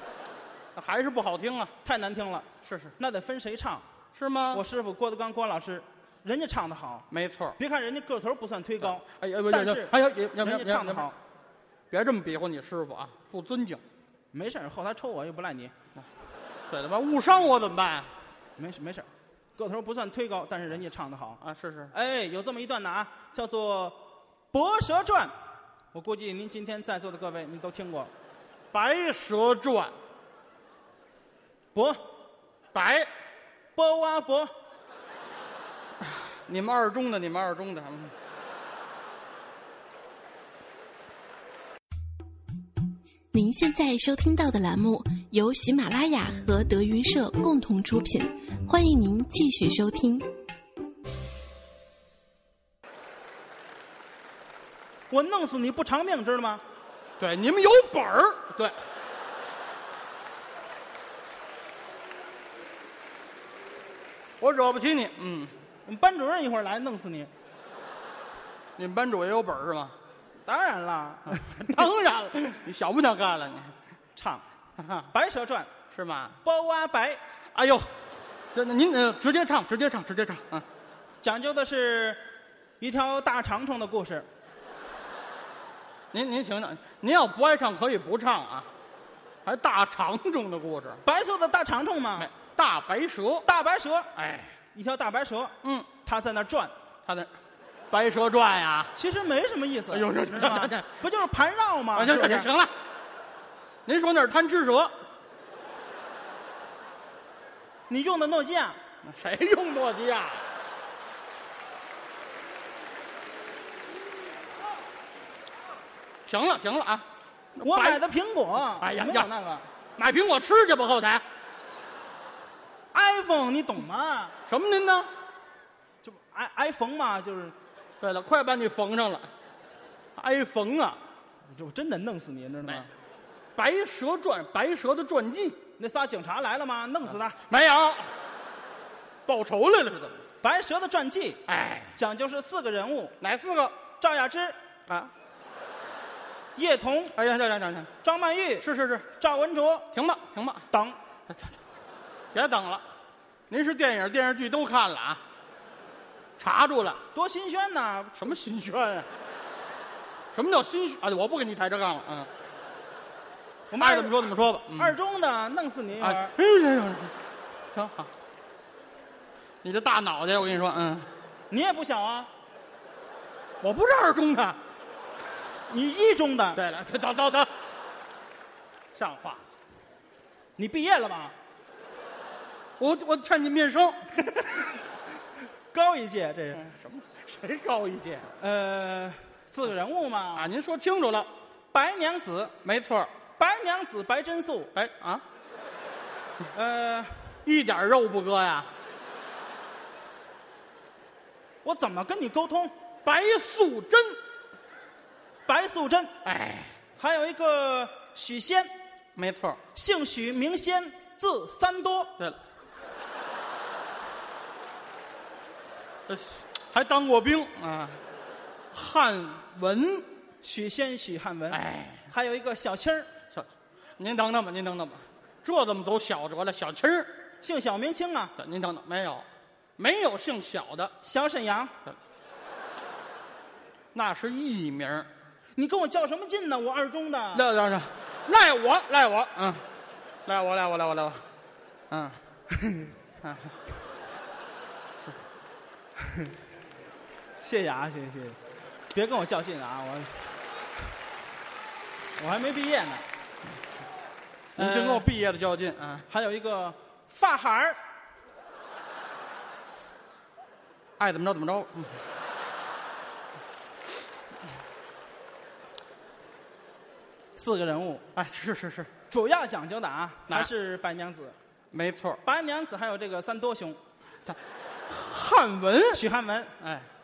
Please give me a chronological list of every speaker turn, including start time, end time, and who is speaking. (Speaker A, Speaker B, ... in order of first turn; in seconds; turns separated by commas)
Speaker A: 0.8-1.7, Speaker B: 1.8-3.8, Speaker A: 2.6-2.9, Speaker A: 4.2-4.6, Speaker B: 4.5-7.1, Speaker A: 7.1-7.6, Speaker B: 7.6-11.2, Speaker A: 8.8-11.1, Speaker A: 11.9-13.8, Speaker B: 14.3-15.7, Speaker A: 16.7-18.1, Speaker B: 18.6-21.4, Speaker A: 21.4-21.9, Speaker B: 21.9-24.0, Speaker B: 24.5-25.3, Speaker B: 25.9-28.1, Speaker A: 28.7-29.9, Speaker B: 31.8-32.0, Speaker A: 32.7-33.1, Speaker B: 33.8-34.5, Speaker A: 36.0-38.1, Speaker C: 43.3-50.3, Speaker B: 55.1-56.6, Speaker A: 57.2-58.8, Speaker A: 64.4-65.5, Speaker B: 65.9-67.3, Speaker A: 68.8-70.0, Speaker B: 70.5-71.8, Speaker A: 71.3-73.7, Speaker B: 74.2-74.5, Speaker A: 74.8-75.1, Speaker B: 75.1-75.7, Speaker A: 75.9-76.4, Speaker B: 76.4-77.2, Speaker A: 77.5-77.9, Speaker A: 78.5-80.7, Speaker B: 81.2-82.2, Speaker B: 82.8-84.3, Speaker A: 86.1-88.7, Speaker A: 89.5-91.0, Speaker B: 91.0-92.3, Speaker A: 92.2-93.5, Speaker B: 93.5-94.1, Speaker A: 94.2-94.5, Speaker B: 94.7-96.7, Speaker A: 95.6-95.9, Speaker A: 97.0-97.3, Speaker A: 97.9-98.9, Speaker B: 99.0-102.5, Speaker A: 99.9-100.9, Speaker A: 101.9-102.7, Speaker A: 103.9-105.0, Speaker B: 107.9-108.8, Speaker A: 109.0-110.5, Speaker A: 116.2-118.0, Speaker B: 117.6-119.7, Speaker A: 118.8-119.3, Speaker A: 120.0-121.2, Speaker B: 122.9-124.3, Speaker A: 124.5-125.1, Speaker B: 126.0-127.5, Speaker A: 128.0-129.3, Speaker A: 130.2-131.0, Speaker B: 131.5-132.9, Speaker A: 133.6-135.6, Speaker B: 135.8-137.4, Speaker A: 137.5-138.1, Speaker A: 139.3-140.2, Speaker B: 140.4-141.4, Speaker A: 141.5-141.9, Speaker B: 141.9-143.2, Speaker A: 143.2-143.8, Speaker B: 144.0-144.6, Speaker A: 144.9-145.1, Speaker B: 146.6-147.2, Speaker A: 147.2-147.9, Speaker B: 148.0-149.9, Speaker A: 148.6-149.1, Speaker A: 149.9-150.7, Speaker B: 150.7-151.0, Speaker A: 152.3-152.8, Speaker A: 153.5-155.2, Speaker A: 156.4-157.0, Speaker B: 157.1-158.4, Speaker A: 158.2-159.1, Speaker A: 160.3-162.3, Speaker B: 163.7-164.2, Speaker A: 163.8-165.0, Speaker B: 164.7-166.3, Speaker A: 166.0-167.1, Speaker A: 167.7-168.1, Speaker A: 169.6-171.1, Speaker B: 171.5-172.3, Speaker A: 173.6-174.6, Speaker B: 175.7-176.6, Speaker A: 176.6-177.5, Speaker A: 178.9-179.4, Speaker B: 180.6-181.3, Speaker A: 182.8-184.1, Speaker B: 184.3-184.8, Speaker B: 185.7-186.6, Speaker A: 186.5-188.3, Speaker B: 188.4-190.5, Speaker A: 190.3-191.3, Speaker B: 191.7-192.6, Speaker A: 192.6-193.1, Speaker B: 193.4-194.7, Speaker A: 194.7-195.2, Speaker B: 196.5-197.2, Speaker A: 197.4-198.7, Speaker B: 201.6-202.7, Speaker A: 203.1-204.2, Speaker B: 205.5-206.1, Speaker A: 206.2-206.8, Speaker B: 207.0-208.7, Speaker A: 209.2-209.6, Speaker B: 209.7-212.1, Speaker A: 216.1-218.0, Speaker A: 218.7-220.1, Speaker B: 220.4-223.1, Speaker A: 221.5-222.1, Speaker A: 223.3-227.2, Speaker B: 227.4-228.3, Speaker A: 228.4-229.3, Speaker A: 229.8-230.9, Speaker B: 231.0-231.7, Speaker A: 233.9-235.1, Speaker B: 235.6-237.4, Speaker A: 237.3-239.7, Speaker A: 240.3-241.2, Speaker A: 241.9-242.2, Speaker B: 242.5-242.9, Speaker A: 243.2-243.5, Speaker B: 247.4-248.4, Speaker B: 248.9-250.1, Speaker B: 252.2-253.0, Speaker A: 254.6-256.1, Speaker B: 254.6-255.1, Speaker B: 256.1-257.8, Speaker A: 261.0-262.0, Speaker B: 267.4-268.1, Speaker A: 268.1-268.9, Speaker B: 269.1-271.4, Speaker A: 271.7-272.2, Speaker B: 272.2-273.8, Speaker A: 274.3-276.0, Speaker B: 275.9-276.5, Speaker A: 276.6-276.9